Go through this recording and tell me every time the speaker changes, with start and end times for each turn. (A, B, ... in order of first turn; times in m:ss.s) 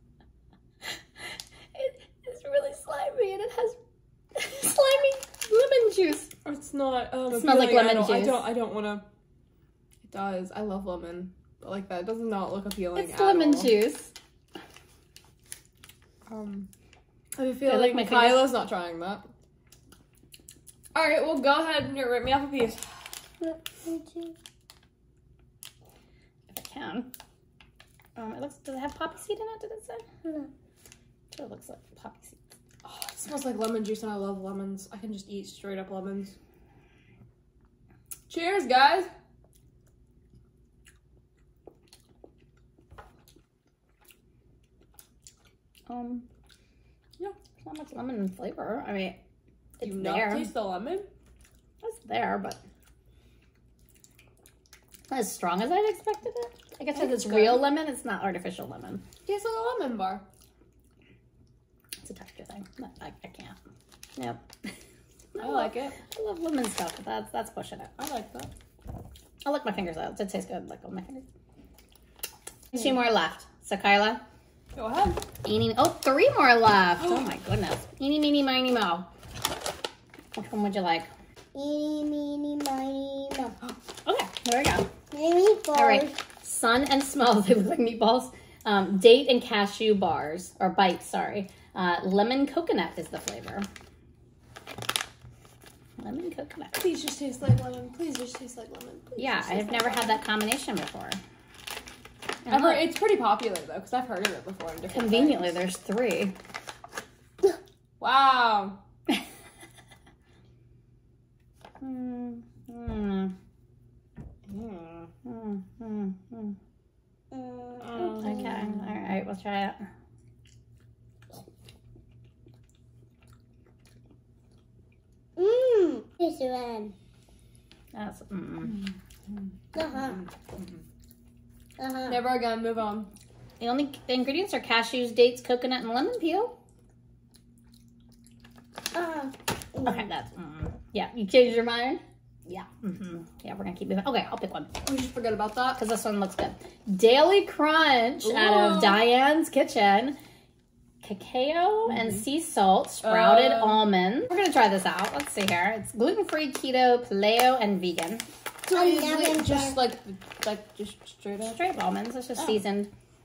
0:01.7-0:03.8 A
0:04.3-0:06.3 A
0:06.4-0:09.0 B
0:07.3-0:08.5 A
0:10.1-0:13.8 B
0:12.9-0:14.1 A
0:16.3-0:16.7 B
0:17.4-0:19.2 B
0:17.6-0:18.5 A
0:20.9-0:23.0 B
0:23.4-0:24.3 C
0:26.5-0:27.1 A
0:28.2-0:30.0 A
0:31.3-0:32.4 A
0:32.8-0:36.3 B
0:38.3-0:39.1 B
0:45.9-0:46.2 A
0:47.6-0:49.2 A
0:49.8-0:50.5 A
0:49.8-0:51.1 B
0:51.8-0:52.6 A
0:55.1-0:59.0 A
0:57.0-0:57.6 B
0:59.2-1:00.2 B
1:02.0-1:03.6 A
1:04.2-1:04.7 A
1:05.3-1:07.9 A
1:05.4-1:06.0 B
1:08.0-1:08.5 B
1:09.4-1:11.2 A
1:12.7-1:14.2 A
1:14.7-1:15.2 B
1:15.4-1:19.1 A
1:20.3-1:21.1 A
1:21.5-1:23.5 C
1:24.0-1:24.8 A
1:25.1-1:26.2 C
1:25.7-1:33.7 A
1:36.0-1:36.8 A
1:36.8-1:40.2 B
1:39.2-1:41.2 A
1:42.5-1:42.9 A
1:42.5-1:45.6 B
1:44.9-1:46.3 A
1:48.0-1:48.8 B
1:51.8-1:53.3 A
1:54.5-1:55.1 B
1:55.2-1:56.6 A
1:57.3-1:58.5 C
1:57.8-1:58.8 B
1:58.2-1:59.9 A
2:05.4-2:06.9 C
2:07.9-2:08.8 A
2:09.7-2:10.2 C
2:11.8-2:12.3 C
2:12.1-2:13.1 B
2:13.6-2:16.6 A
2:18.9-2:20.0 C
2:19.8-2:24.7 A
2:24.8-2:25.8 B
2:25.8-2:30.2 A
2:28.2-2:29.0 B
2:31.0-2:38.2 A
2:33.0-2:33.8 B
2:38.6-2:41.6 B
2:38.7-2:39.8 C
2:41.4-2:42.9 A